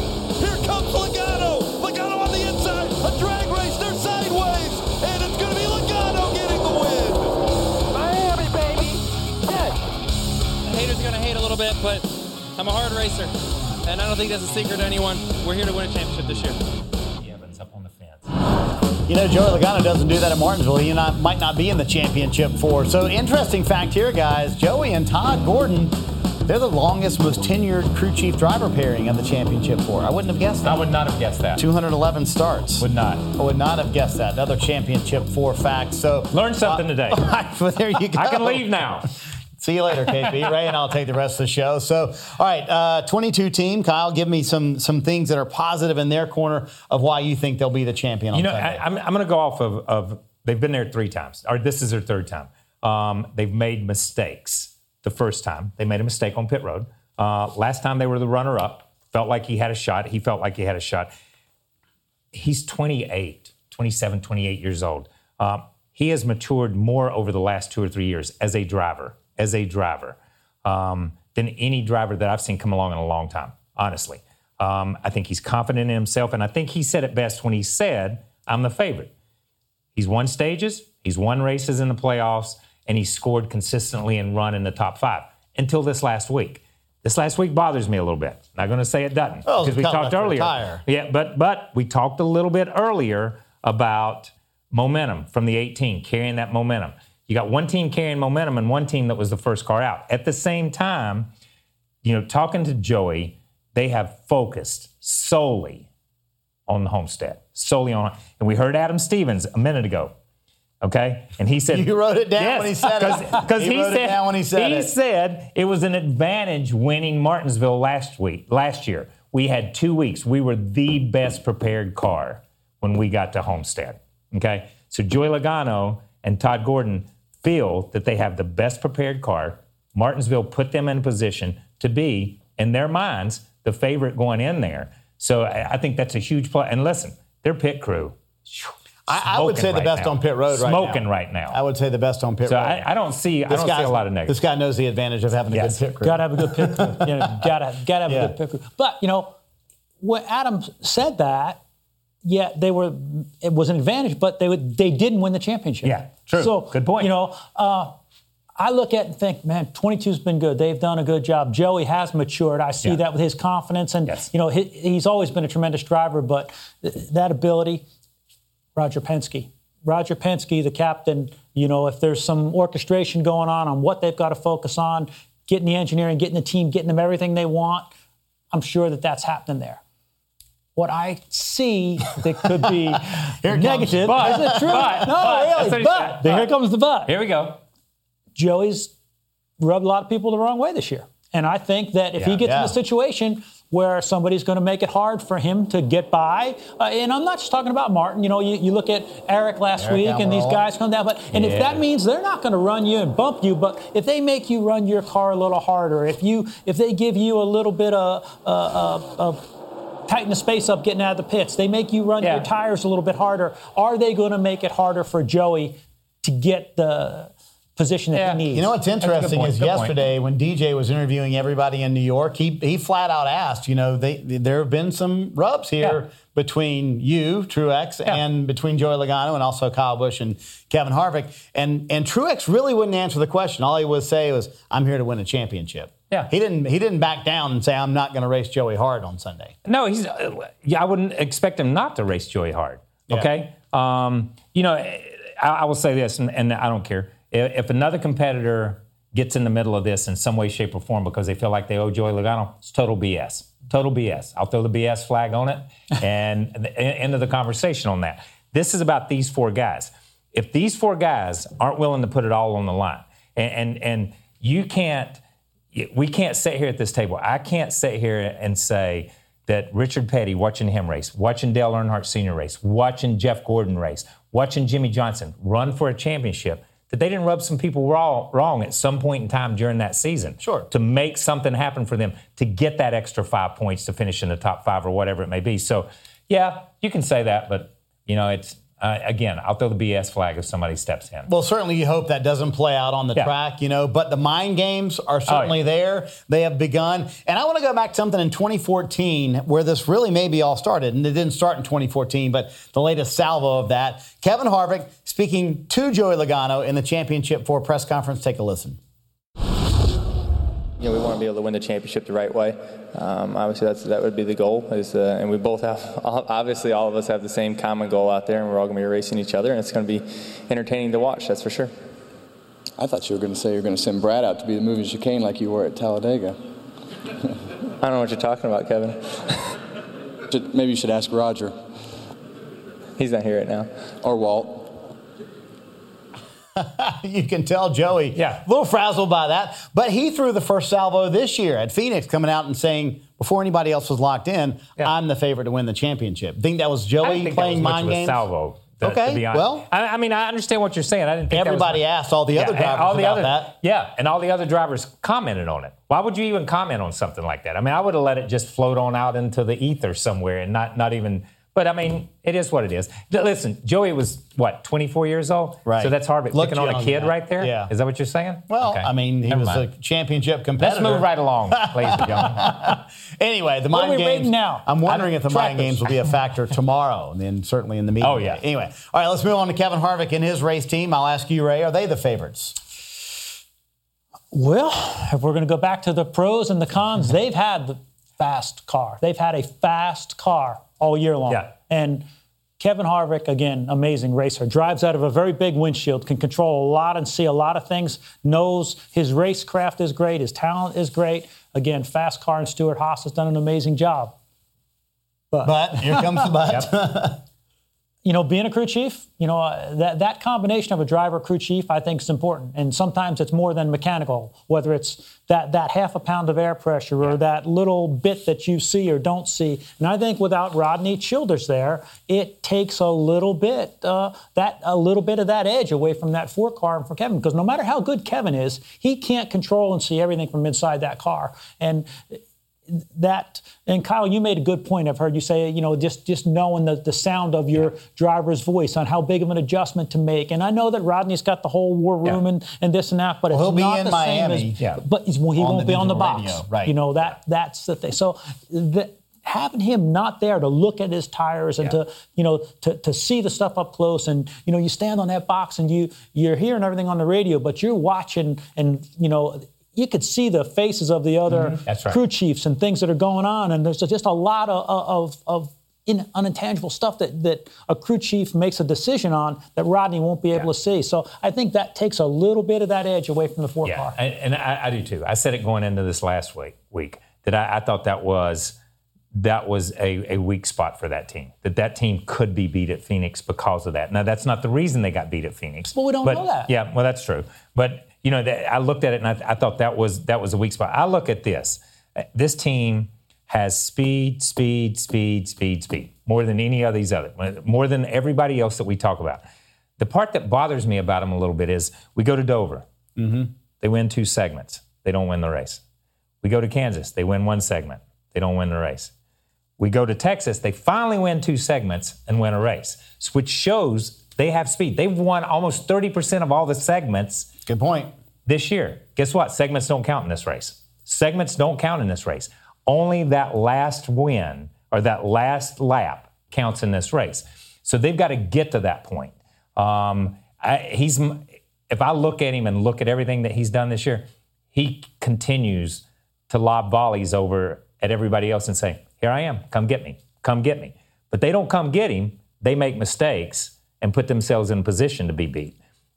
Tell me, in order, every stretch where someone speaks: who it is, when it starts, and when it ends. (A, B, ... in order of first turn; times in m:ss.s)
0:00.4-0:07.3 A
0:07.9-0:09.8 B
0:10.6-0:13.3 B
0:13.8-0:16.6 B
0:17.2-0:18.3 C
0:19.1-0:25.9 D
0:26.4-0:30.8 D
0:30.6-0:31.6 C
0:31.6-0:38.7 D
0:32.8-0:33.2 C
0:36.3-0:37.3 C
0:38.1-0:39.1 C
0:39.6-0:48.8 D
0:48.3-1:01.1 C
1:02.3-1:19.1 C
1:19.9-1:41.3 C
1:29.4-1:30.8 D
1:42.0-1:45.9 C
1:46.7-1:50.1 C
1:50.8-2:21.6 C
1:51.7-1:54.9 D
2:19.1-2:22.8 D
2:22.4-2:24.4 C
2:23.5-2:27.3 D
2:26.0-2:29.3 E
2:28.0-2:28.3 D
2:30.0-2:31.6 E
2:32.2-2:38.0 E
2:35.8-2:37.1 C
2:38.6-2:47.8 E
2:48.8-2:57.9 E
2:58.5-2:59.8 E
3:00.8-3:07.1 E
3:02.9-3:05.4 D
3:04.0-3:06.5 C
3:07.0-3:07.6 C
3:08.3-3:08.9 E
3:09.6-3:29.4 E
3:12.4-3:12.7 D
3:19.8-3:20.6 D
3:21.3-3:21.8 C
3:30.1-3:38.7 E
3:32.2-3:32.5 C
3:38.1-3:38.4 C
3:38.5-3:59.5 D
3:39.0-3:39.9 C
3:59.6-4:25.2 C
4:25.7-4:51.3 C
4:40.4-4:40.7 D
4:51.3-5:08.8 D
4:55.3-4:55.6 C
5:10.8-5:21.7 F
5:22.8-5:26.4 G
5:27.8-5:29.2 F
5:30.3-5:31.6 G
5:33.0-5:33.7 F
5:34.0-5:34.7 G
5:36.6-5:48.2 D
5:38.1-5:38.4 C
5:47.0-6:09.6 C
5:48.8-5:49.6 D
5:51.3-5:53.5 D
6:05.6-6:07.7 D
6:08.5-6:22.6 D
6:10.6-6:12.7 C
6:13.7-6:15.9 E
6:18.0-6:18.4 C
6:24.3-6:32.0 E
6:32.6-6:44.1 E
6:45.3-6:46.2 E
6:45.4-6:47.2 D
6:48.0-7:54.0 E
7:23.3-7:24.6 D
7:25.4-7:26.8 D
7:41.6-7:42.0 C
7:53.6-7:58.5 C
7:59.1-8:11.6 C
8:05.7-8:06.5 E
8:12.1-8:19.2 C
8:19.8-8:22.6 C
8:23.0-8:23.3 D
8:23.6-8:25.6 C
8:26.2-8:28.9 C
8:29.6-8:37.3 C
8:37.4-8:37.9 D
8:38.2-9:05.6 C